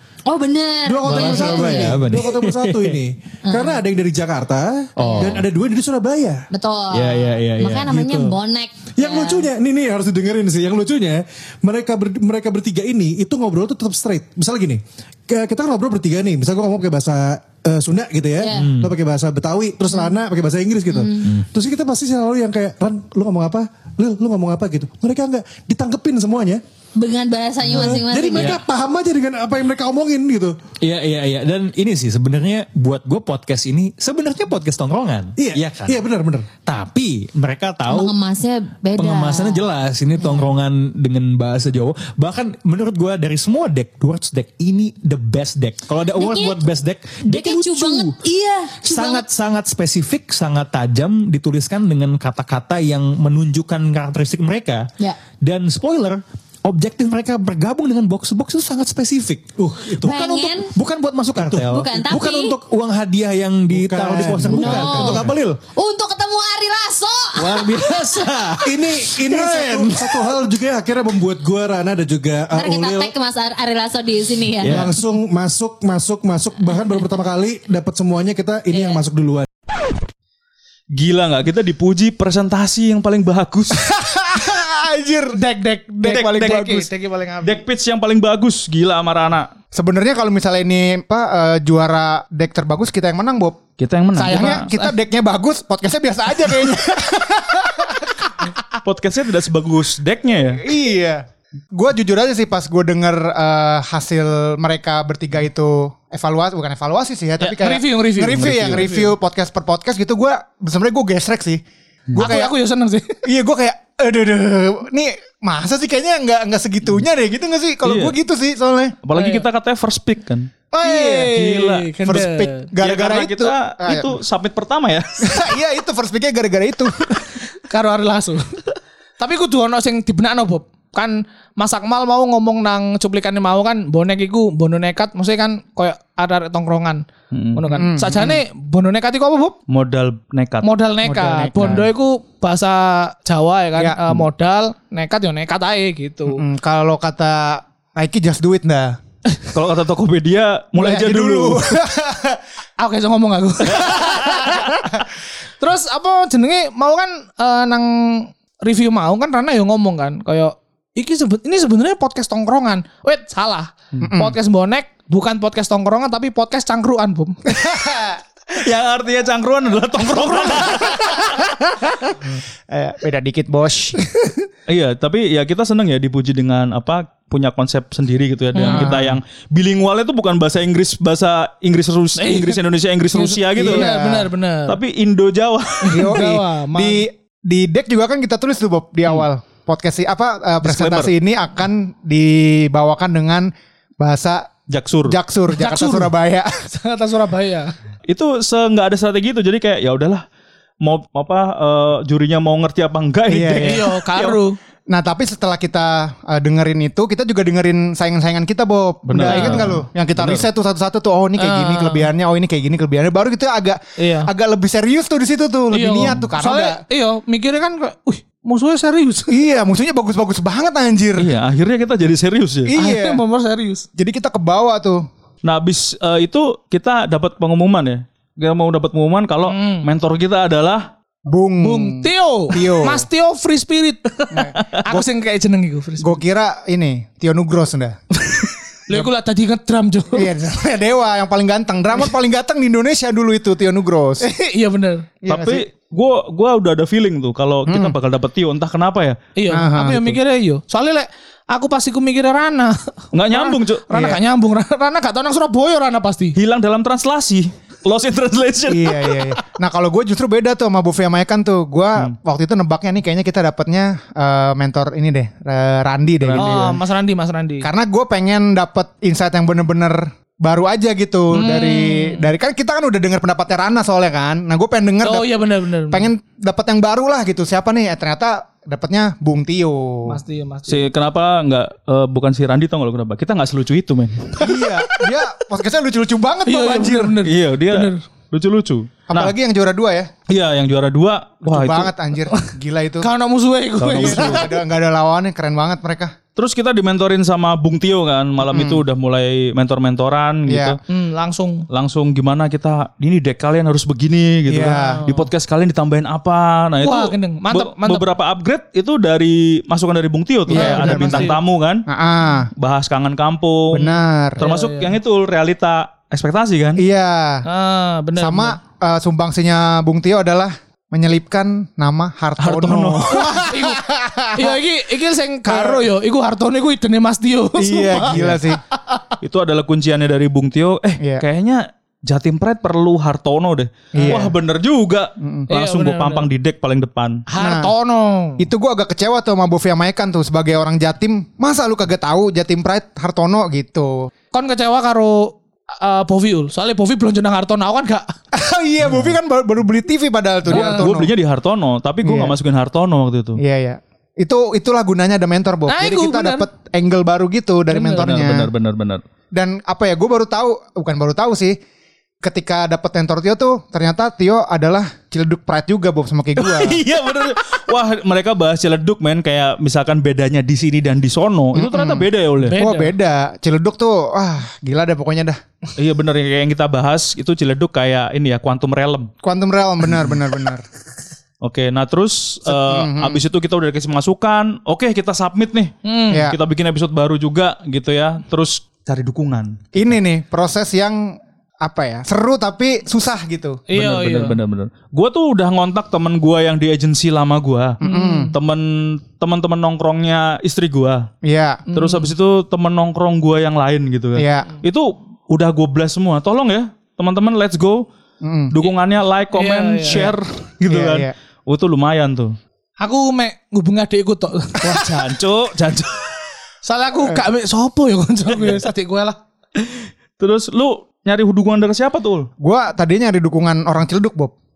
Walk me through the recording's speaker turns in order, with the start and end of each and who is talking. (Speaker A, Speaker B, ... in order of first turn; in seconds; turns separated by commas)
Speaker A: 0.3-2.1, Speaker B: 0.8-6.5, Speaker C: 1.0-3.0, Speaker A: 3.4-3.8, Speaker C: 5.0-5.5, Speaker A: 5.0-5.4, Speaker A: 6.5-9.5, Speaker C: 6.9-8.1, Speaker B: 7.8-8.3, Speaker B: 8.9-26.6, Speaker A: 18.4-18.7, Speaker C: 18.5-18.9, Speaker A: 20.9-21.3, Speaker A: 26.9-28.6, Speaker B: 27.6-30.6, Speaker C: 27.7-28.6, Speaker C: 30.8-36.0, Speaker B: 35.4-36.5, Speaker C: 36.6-38.1, Speaker A: 37.9-39.6, Speaker C: 39.0-48.2, Speaker A: 46.1-46.7, Speaker A: 47.2-49.3, Speaker C: 48.8-65.4, Speaker B: 59.6-60.2, Speaker A: 60.0-60.7, Speaker B: 61.4-61.6, Speaker A: 61.6-62.6, Speaker B: 63.7-65.6, Speaker A: 64.4-68.3, Speaker C: 67.4-70.1, Speaker B: 68.5-73.1, Speaker A: 69.4-69.7, Speaker A: 72.5-74.9, Speaker C: 74.6-75.0, Speaker B: 74.6-79.5, Speaker A: 78.7-79.0, Speaker D: 80.9-83.8, Speaker E: 83.7-85.4, Speaker F: 85.3-87.6, Speaker E: 86.0-86.8, Speaker D: 86.1-86.8, Speaker D: 87.4-89.5, Speaker E: 89.7-93.6, Speaker D: 93.8-94.6, Speaker F: 94.2-94.9, Speaker E: 94.2-98.2, Speaker D: 98.8-100.6, Speaker E: 100.6-111.6, Speaker F: 107.4-109.1, Speaker D: 108.3-108.9, Speaker E: 112.1-112.5, Speaker F: 112.2-113.2, Speaker E: 113.2-118.9, Speaker D: 117.8-118.1, Speaker D: 119.0-120.5, Speaker F: 119.1-119.4, Speaker E: 120.7-121.3, Speaker F: 120.8-122.6, Speaker D: 121.3-121.9, Speaker E: 122.0-124.2, Speaker D: 122.8-125.2, Speaker E: 125.2-127.2, Speaker F: 127.6-128.6, Speaker F: 129.2-137.0, Speaker D: 137.3-137.6, Speaker F: 137.5-139.6, Speaker E: 137.7-138.4, Speaker D: 139.7-140.7, Speaker F: 140.6-146.4, Speaker E: 141.0-141.9, Speaker D: 141.6-141.8, Speaker E: 146.3-149.0, Speaker D: 149.5-151.6, Speaker E: 150.8-152.4, Speaker F: 152.8-154.9, Speaker D: 153.8-154.4, Speaker F: 155.6-167.4, Speaker E: 164.0-164.3, Speaker E: 167.5-168.2, Speaker D: 168.6-171.3, Speaker E: 172.7-174.0, Speaker F: 174.0-174.3, Speaker D: 174.7-183.9, Speaker F: 178.5-178.9, Speaker E: 178.6-179.2, Speaker F: 182.2-182.6, Speaker F: 183.1-184.8, Speaker E: 183.6-184.3, Speaker D: 184.7-186.2, Speaker F: 185.8-187.0, Speaker E: 185.9-194.5, Speaker D: 190.6-191.1, Speaker D: 194.7-195.2, Speaker E: 195.0-196.5, Speaker F: 195.5-196.1, Speaker F: 196.7-197.7, Speaker D: 198.1-200.2, Speaker D: 200.8-204.4, Speaker E: 203.3-203.8, Speaker F: 203.6-204.6, Speaker E: 204.9-216.8, Speaker D: 209.1-210.4, Speaker F: 209.2-209.7, Speaker F: 211.4-212.1, Speaker F: 214.0-214.3, Speaker F: 215.7-219.3, Speaker E: 219.3-221.3, Speaker D: 221.2-222.7, Speaker E: 222.7-223.2, Speaker F: 222.7-223.8, Speaker E: 223.9-225.0, Speaker D: 225.4-230.9, Speaker F: 229.4-229.9, Speaker E: 231.3-233.1, Speaker F: 231.6-236.2, Speaker E: 234.3-235.1, Speaker D: 234.5-234.8, Speaker E: 236.0-238.0, Speaker F: 238.9-240.3, Speaker E: 240.1-244.2, Speaker F: 244.2-245.1, Speaker E: 245.2-245.6, Speaker D: 245.3-249.2, Speaker E: 247.7-247.9, Speaker F: 249.3-256.4, Speaker E: 249.5-250.2, Speaker D: 253.1-253.8, Speaker E: 253.9-254.2, Speaker D: 256.4-259.3, Speaker E: 258.7-266.8, Speaker D: 266.2-266.7, Speaker F: 266.4-267.7, Speaker E: 267.6-275.3, Speaker F: 271.3-272.3, Speaker F: 275.0-276.1, Speaker E: 275.9-280.2, Speaker F: 280.1-280.9, Speaker D: 280.7-284.6, Speaker E: 284.4-287.1, Speaker F: 286.4-288.0, Speaker D: 287.2-289.3, Speaker E: 289.1-290.1, Speaker D: 290.3-291.9, Speaker E: 291.4-293.1, Speaker F: 293.0-294.5, Speaker D: 293.8-294.5, Speaker E: 293.9-296.1, Speaker D: 296.4-300.8, Speaker E: 298.4-298.8, Speaker E: 300.5-300.8, Speaker F: 300.9-301.6, Speaker D: 301.7-311.8, Speaker E: 304.5-305.0, Speaker F: 304.6-305.3, Speaker F: 306.8-308.0, Speaker E: 310.5-311.4, Speaker F: 310.5-311.4, Speaker E: 311.9-312.5, Speaker D: 312.6-316.8, Speaker E: 313.7-314.4, Speaker F: 314.4-314.9, Speaker E: 316.8-317.4, Speaker F: 317.4-318.6, Speaker E: 318.2-324.6, Speaker D: 322.4-323.4, Speaker F: 323.1-323.8, Speaker F: 324.3-328.5, Speaker E: 325.4-325.9, Speaker E: 327.6-328.6, Speaker D: 329.2-337.2, Speaker F: 334.0-334.2, Speaker E: 334.0-334.3, Speaker E: 335.2-335.5, Speaker F: 335.5-336.3, Speaker F: 337.3-338.4, Speaker E: 337.4-337.7, Speaker E: 338.4-344.1, Speaker F: 344.3-348.1, Speaker E: 348.3-351.1, Speaker D: 350.5-353.4, Speaker F: 350.5-350.9, Speaker E: 352.0-352.4, Speaker E: 353.4-358.5, Speaker F: 355.7-356.5, Speaker F: 357.7-358.1, Speaker D: 357.9-359.0, Speaker E: 359.3-361.6, Speaker E: 362.2-366.8, Speaker D: 366.4-372.6, Speaker E: 371.5-375.4, Speaker F: 372.4-372.9, Speaker D: 375.8-379.1, Speaker E: 379.2-380.6, Speaker D: 381.4-389.7, Speaker E: 382.4-383.2, Speaker F: 385.8-386.2, Speaker E: 386.1-386.4, Speaker E: 389.7-393.6, Speaker F: 393.7-394.4, Speaker D: 393.7-397.8, Speaker F: 397.8-398.3, Speaker E: 397.8-398.3, Speaker D: 398.3-401.1, Speaker E: 401.2-401.6, Speaker F: 401.7-402.1, Speaker D: 401.7-407.9, Speaker E: 404.1-404.5, Speaker E: 408.2-408.5, Speaker D: 408.5-412.4, Speaker F: 409.3-410.1, Speaker E: 409.9-411.1, Speaker F: 412.8-414.9, Speaker D: 414.6-416.1, Speaker F: 416.6-419.2, Speaker D: 419.6-422.3, Speaker E: 422.4-424.3